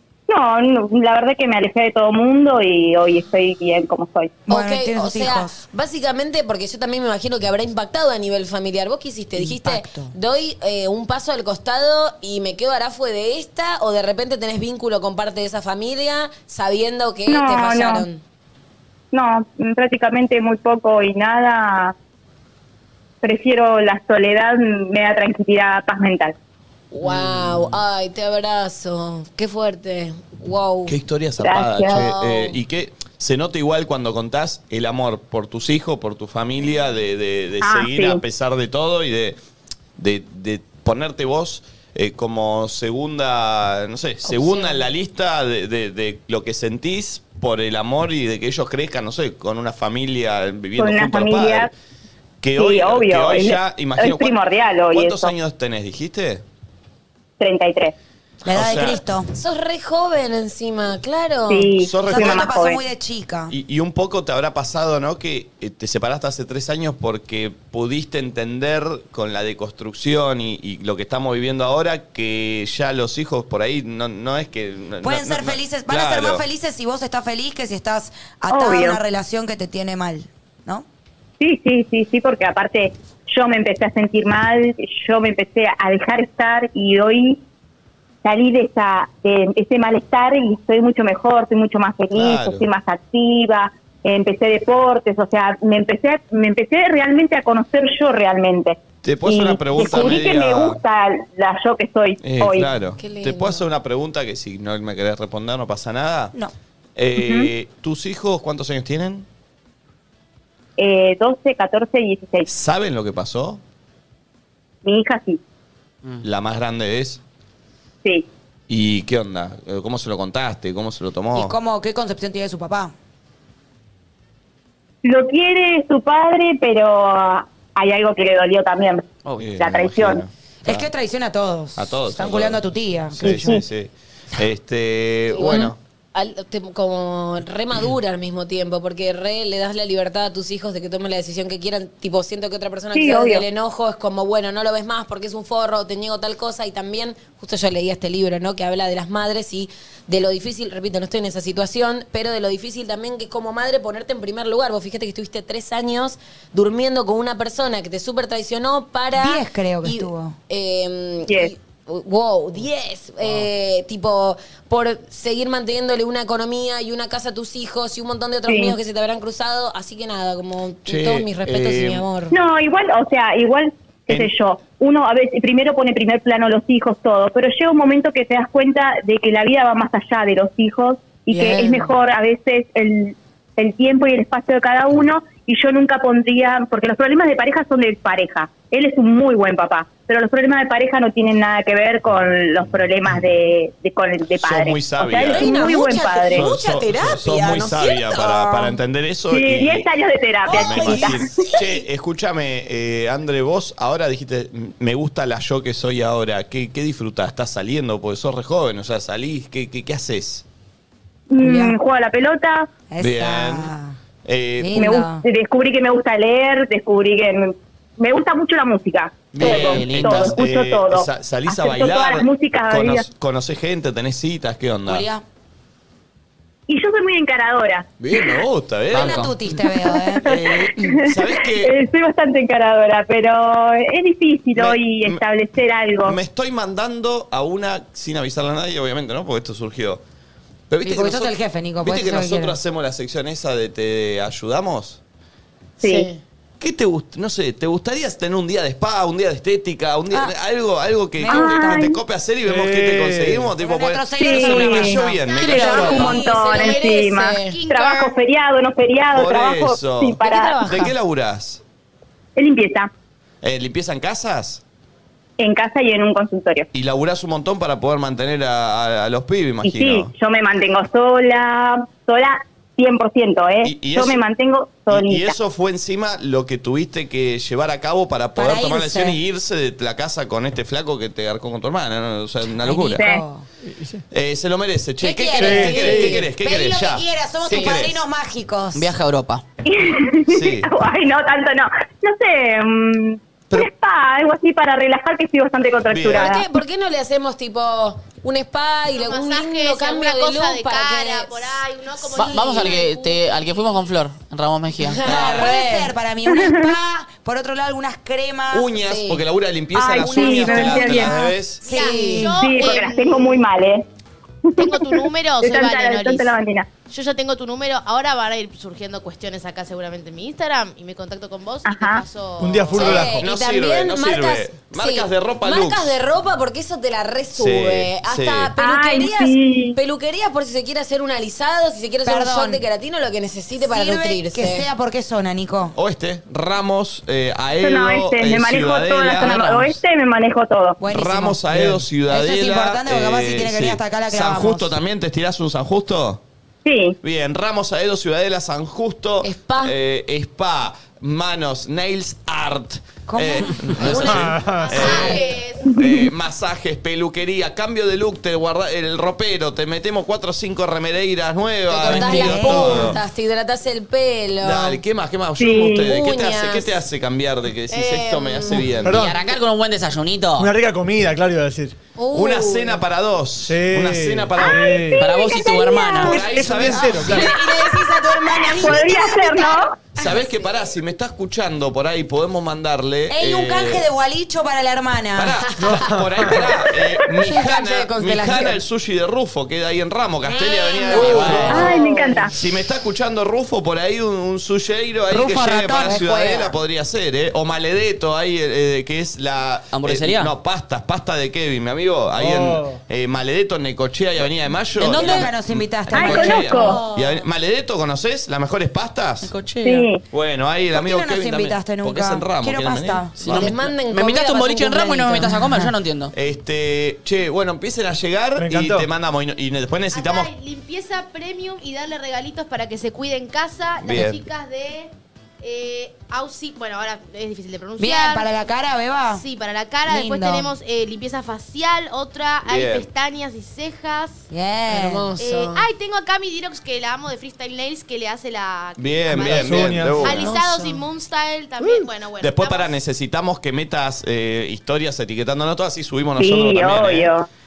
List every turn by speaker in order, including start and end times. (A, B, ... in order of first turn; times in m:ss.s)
0:00.3-0:04.4 A
0:04.5-0:05.6 B
0:04.5-0:18.2 C
0:09.4-0:10.1 B
0:17.3-0:18.1 A
0:19.1-0:22.0 A
0:23.2-0:26.4 A
0:26.9-0:31.0 C
0:27.0-0:27.8 D
0:30.9-0:39.4 E
0:31.4-0:32.1 A
0:31.9-0:32.5 C
0:37.6-0:38.2 A
0:40.0-0:51.7 E
0:44.3-0:44.9 C
0:50.8-0:51.7 A
0:52.4-0:54.4 E
0:52.6-0:55.3 A
0:54.9-0:56.4 E
0:57.4-0:57.9 A
0:58.4-0:59.3 B
0:58.5-0:59.0 E
0:59.3-1:01.7 C
1:01.5-1:02.8 A
1:01.8-1:02.5 E
1:02.1-1:03.5 B
1:03.5-1:16.4 E
1:15.0-1:20.8 B
1:18.5-1:19.0 A
1:21.4-1:27.4 A
1:28.2-1:42.7 A
1:32.1-1:32.7 E
1:39.0-1:40.8 E
1:42.2-1:46.4 E
1:43.0-1:43.7 C
1:47.0-1:49.3 E
1:47.1-1:47.5 A
1:50.8-1:52.5 A
1:52.5-1:53.6 E
1:54.8-1:55.4 A
1:56.2-1:57.2 E
1:58.7-2:01.6 E
2:01.3-2:02.9 B
2:05.0-2:10.2 A
2:09.2-2:09.5 D
2:09.4-2:10.9 E
2:10.6-2:13.6 B
2:11.8-2:15.8 E
2:15.3-2:52.3 C
2:22.9-2:23.4 A
2:39.2-2:40.4 B
2:41.3-2:41.5 A
2:48.5-2:48.8 A
2:50.9-2:52.0 E
2:52.3-3:16.5 A
3:01.3-3:01.9 B
3:14.4-3:19.9 E
3:15.1-3:18.8 C
3:19.3-3:21.2 A
3:20.4-3:30.4 E
3:20.5-3:21.8 C
3:31.3-3:32.7 A
3:31.4-3:31.8 B
3:32.9-3:34.0 B
3:33.0-3:33.7 E
3:34.2-3:35.0 E
3:34.6-3:35.3 B
3:34.8-3:43.1 A
3:39.3-3:45.1 E
3:39.4-3:40.3 D
3:44.9-3:45.2 B
3:46.7-3:48.4 A
3:48.0-3:49.3 E
3:48.9-3:50.4 B
3:48.9-3:49.4 D
3:50.2-3:51.8 E
3:50.3-3:56.2 A
3:54.6-3:55.2 E
3:56.0-4:00.0 E
4:00.7-4:05.0 E
4:00.8-4:02.6 B
4:05.8-4:06.1 A
4:05.8-4:06.2 C
4:06.6-4:16.2 E
4:11.2-4:12.0 B
4:11.3-4:12.0 A
4:12.4-4:13.5 F
4:13.6-4:15.9 B
4:14.2-4:20.7 A
4:15.3-4:18.1 G
4:15.4-4:17.6 C
4:19.1-4:21.6 E
4:20.2-4:20.9 C
4:22.4-4:22.9 A
4:23.4-4:24.6 E
4:25.4-4:26.7 A
4:26.7-4:30.1 E
4:29.6-4:35.4 A
4:33.6-4:34.2 E
4:34.9-4:43.0 E
4:38.4-4:39.2 B
4:42.6-4:43.4 B
4:43.0-4:43.2 A
4:43.7-4:44.0 F
4:44.1-4:48.0 E
4:45.0-4:48.9 B
4:45.4-4:46.2 F
4:45.4-4:46.2 C
4:47.4-4:47.7 C
4:48.7-4:49.4 D
4:49.6-4:56.4 A
4:50.3-4:50.7 E
4:55.9-4:56.4 E
4:56.1-5:01.6 C
4:59.0-5:03.9 G
5:02.2-5:05.0 D
5:02.2-5:02.8 B
5:04.8-5:05.9 C
5:05.0-5:05.5 E
5:05.0-5:08.8 B
5:06.3-5:06.8 A
5:08.5-5:11.6 E
5:08.9-5:09.2 C
5:09.7-5:11.2 A
5:10.2-5:12.4 B
5:11.6-5:12.3 C
5:11.7-5:13.4 G
5:12.3-5:13.8 A
5:14.5-5:16.7 A
5:14.6-5:16.3 G
5:16.9-5:23.0 G
5:21.6-5:22.0 A
5:22.4-5:23.2 F
5:22.8-5:34.7 C
5:22.8-5:26.0 E
5:27.4-5:28.5 E
5:28.6-5:29.8 A
5:32.1-5:32.6 B
5:33.6-5:35.8 B
5:35.8-5:39.8 E
5:37.6-5:40.8 A
5:40.8-5:41.4 B
5:40.8-5:46.2 E
5:41.5-5:41.8 F
5:42.1-5:44.7 B
5:46.6-5:47.0 A
5:47.0-6:03.0 E
5:49.2-5:49.7 C
5:53.1-5:54.1 B
5:53.8-5:55.4 C
5:54.0-5:55.0 F
5:54.6-5:55.8 G
6:01.7-6:04.8 C
6:01.8-6:03.0 B
6:04.4-6:09.0 E
6:05.4-6:05.9 A
6:05.8-6:06.8 C
6:07.7-6:08.8 C
6:08.5-6:09.2 F
6:08.9-6:10.5 D
6:10.4-6:11.8 F
6:12.0-6:12.8 C
6:12.1-6:14.8 E
6:13.4-6:15.1 F
6:15.0-6:16.4 D
6:15.0-6:16.3 C
6:16.0-6:17.3 E
6:16.0-6:17.4 F
6:16.4-6:19.6 B
6:18.5-6:19.8 A
6:19.9-6:23.9 E
6:20.0-6:20.5 C
6:23.1-6:25.5 B
6:25.2-6:31.8 E
6:25.6-6:26.3 F
6:27.1-6:28.6 C
6:30.2-6:32.3 C
6:31.0-6:31.8 D
6:31.3-6:31.6 B
6:31.5-6:32.3 A
6:32.3-6:49.3 E
6:35.1-6:36.1 B
6:35.8-6:36.5 C
6:39.7-6:40.3 D
6:42.2-6:42.8 F
6:44.8-6:46.8 B
6:46.0-6:46.8 A
6:46.5-6:47.2 C
6:49.2-6:49.9 D
6:49.6-6:50.0 A
6:50.1-6:53.6 E
6:50.7-6:53.2 B
6:53.2-6:56.1 D
6:53.2-6:55.3 C
6:55.1-6:55.7 B
6:56.1-7:00.3 E
6:58.4-6:58.9 F
6:59.9-7:08.3 G
7:03.8-7:04.2 E
7:07.8-7:09.3 B
7:09.1-7:14.3 G
7:09.9-7:10.6 B
7:12.4-7:12.9 E
7:14.3-7:15.1 B
7:14.7-7:15.6 C
7:15.2-7:22.8 G
7:18.8-7:20.4 E
7:19.1-7:20.4 F
7:20.1-7:20.9 B
7:22.2-7:27.1 E
7:26.2-7:27.3 A